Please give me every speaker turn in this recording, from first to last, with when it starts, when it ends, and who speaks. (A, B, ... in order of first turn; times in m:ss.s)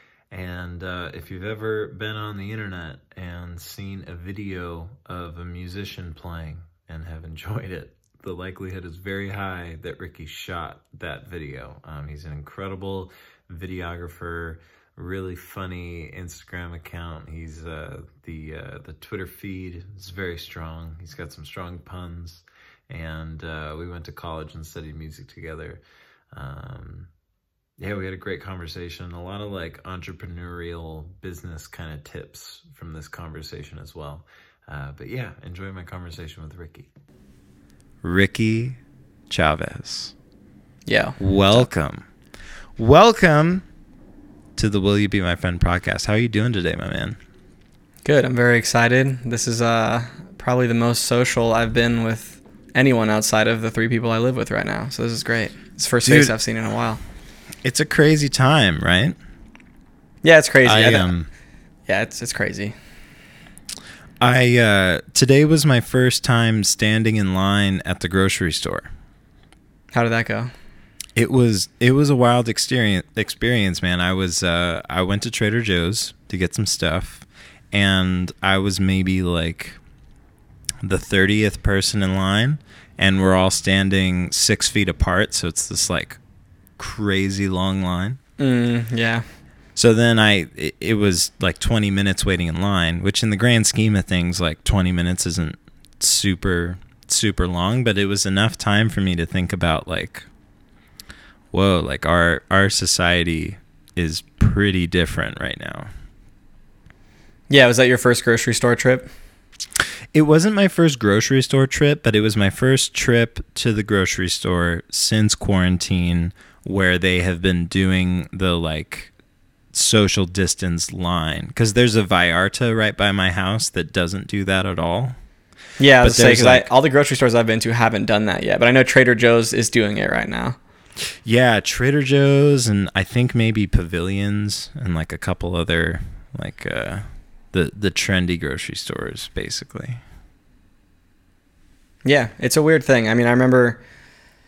0:00.3-0:25.8 A
0:26.3-0:27.1 A
0:27.8-0:36.9 A
0:38.0-0:38.8 A
0:39.3-0:40.1 A
0:40.9-0:41.7 B
0:41.2-0:42.0 A
0:42.8-0:43.6 A
0:44.6-0:47.2 A
0:48.0-0:57.0 B
0:56.0-0:56.3 A
0:57.6-0:59.2 A
1:00.2-1:01.1 B
1:00.6-1:01.3 A
1:01.9-1:02.8 B
1:04.2-1:08.9 A
1:09.9-1:10.5 B
1:11.2-1:19.8 A
1:20.8-1:26.2 A
1:26.8-1:28.2 A
1:28.4-1:29.2 B
1:29.8-1:40.3 A
1:41.5-1:45.9 A
1:47.5-1:49.1 B
1:50.1-1:59.1 A
1:59.7-2:05.2 A
2:05.8-2:10.6 B
2:06.0-2:06.7 A
2:11.2-2:20.0 A
2:22.0-2:23.8 B